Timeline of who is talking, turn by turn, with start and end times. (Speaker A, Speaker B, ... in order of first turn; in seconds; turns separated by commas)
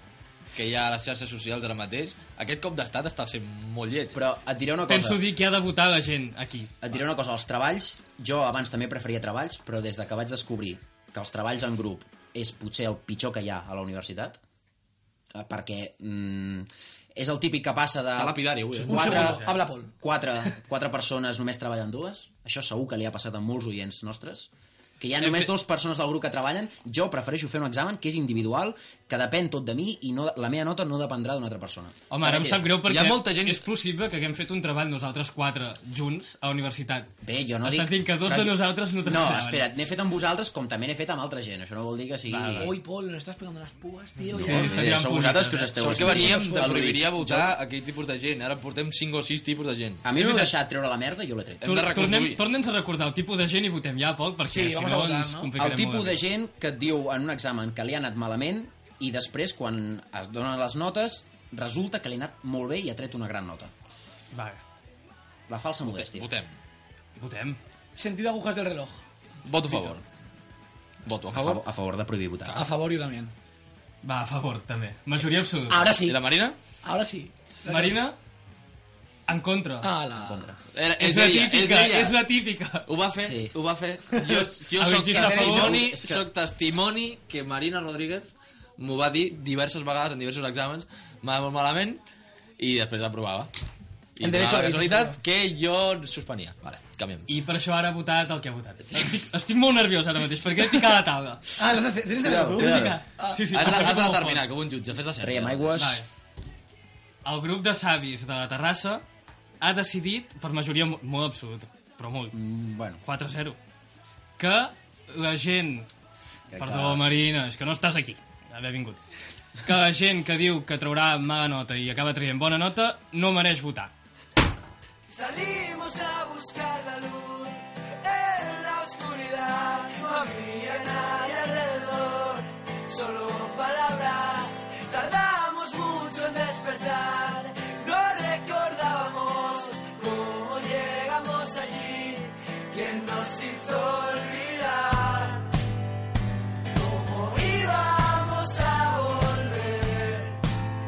Speaker A: 0.5-4.2, Speaker B: 4.1-5.2, Speaker C: 4.8-6.8, Speaker B: 6.8-14.4, Speaker B: 15.3-19.4, Speaker A: 18.1-19.2, Speaker D: 18.9-19.9, Speaker C: 19.0-19.6, Speaker B: 20.0-32.7, Speaker C: 25.2-25.5, Speaker C: 32.1-37.1, Speaker A: 32.8-33.6, Speaker B: 37.2-42.7, Speaker C: 37.6-39.7, Speaker C: 42.3-42.6, Speaker D: 42.6-44.9, Speaker B: 44.3-47.5, Speaker C: 44.4-46.0, Speaker A: 45.8-50.1, Speaker D: 46.0-46.8, Speaker B: 50.0-51.8, Speaker A: 51.6-52.4, Speaker C: 51.6-56.2, Speaker D: 54.4-55.5, Speaker B: 55.5-63.7, Speaker C: 64.3-64.6, Speaker B: 65.5-66.3, Speaker A: 65.8-66.5, Speaker C: 67.2-67.6, Speaker D: 68.0-69.0, Speaker A: 69.4-70.0, Speaker A: 71.0-71.6, Speaker B: 71.3-72.7, Speaker D: 72.5-73.3, Speaker C: 74.0-75.9, Speaker D: 75.7-76.2, Speaker A: 76.0-76.5, Speaker D: 76.8-78.0, Speaker C: 77.7-78.2, Speaker C: 79.3-79.9, Speaker D: 79.8-80.5, Speaker B: 80.2-80.6, Speaker A: 80.7-82.3, Speaker C: 81.0-82.8, Speaker A: 82.8-92.0, Speaker B: 83.2-83.5, Speaker D: 84.1-84.5, Speaker C: 84.8-85.8, Speaker D: 85.1-85.6, Speaker B: 85.2-86.2, Speaker A: 92.6-93.5, Speaker A: 94.2-97.3, Speaker D: 94.2-95.2, Speaker C: 97.3-101.4, Speaker D: 101.6-103.5, Speaker B: 102.2-103.0, Speaker C: 102.6-104.4, Speaker A: 103.5-105.8, Speaker B: 105.2-106.0, Speaker C: 105.8-106.0, Speaker C: 107.2-109.0, Speaker C: 109.6-112.3, Speaker B: 112.3-113.0, Speaker C: 113.0-113.6, Speaker C: 114.4-115.9, Speaker B: 116.5-117.0, Speaker C: 116.6-119.0, Speaker C: 119.6-123.9, Speaker E: 125.1-145.5, Speaker E: 146.7-150.4